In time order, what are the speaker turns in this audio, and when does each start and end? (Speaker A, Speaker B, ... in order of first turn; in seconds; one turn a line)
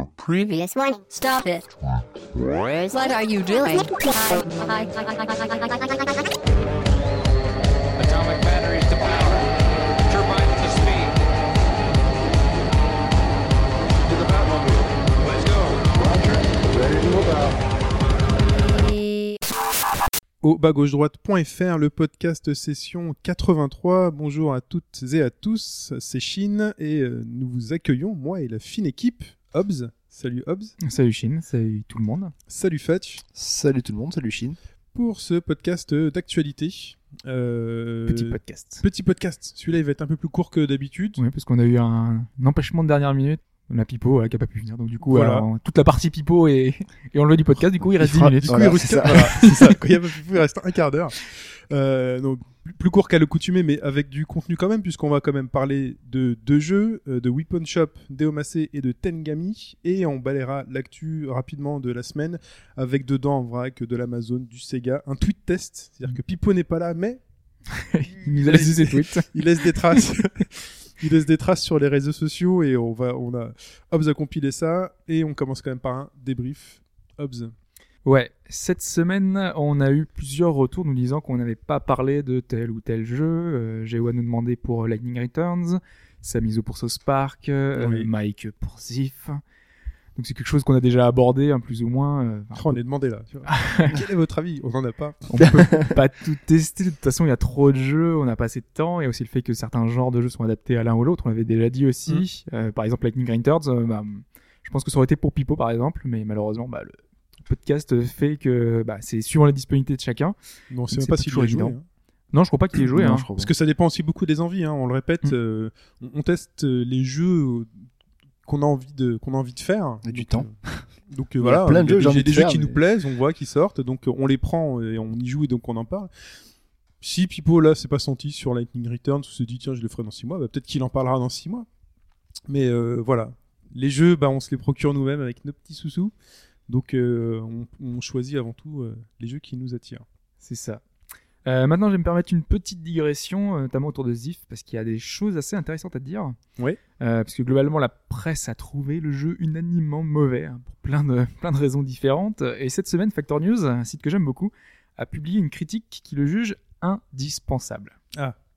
Speaker A: 0.2-1.7
Speaker A: 2.4-6.3
Speaker B: 8.0-11.2
Speaker B: 14.0-17.6
Speaker A: 18.6-19.4
Speaker C: 20.4-30.7
Speaker D: 30.8-32.3
Speaker C: 32.5-33.2
Speaker E: 33.3-34.6
Speaker C: 34.9-41.2
Speaker D: 38.1-38.8
Speaker D: 41.2-49.7
Speaker C: 45.0-45.5
Speaker E: 48.0-49.3
Speaker C: 48.4-67.2
Speaker D: 67.8-69.3
Speaker C: 68.1-77.5
Speaker D: 78.0-89.4
Speaker C: 87.8-88.1
Speaker D: 90.2-92.8
Speaker C: 92.5-95.3
Speaker D: 93.5-94.0
Speaker D: 95.3-110.3
Speaker E: 95.4-95.9
Speaker C: 110.7-111.8
Speaker D: 111.0-111.8
Speaker D: 112.3-113.3
Speaker E: 113.0-113.5
Speaker C: 113.4-117.7
Speaker C: 118.5-120.5
Speaker E: 120.0-120.8
Speaker C: 121.1-126.1
Speaker E: 121.4-122.8
Speaker C: 127.0-131.7
Speaker C: 132.5-136.1
Speaker C: 136.7-140.0
Speaker D: 140.4-140.8
Speaker D: 141.4-146.3
Speaker D: 147.0-157.9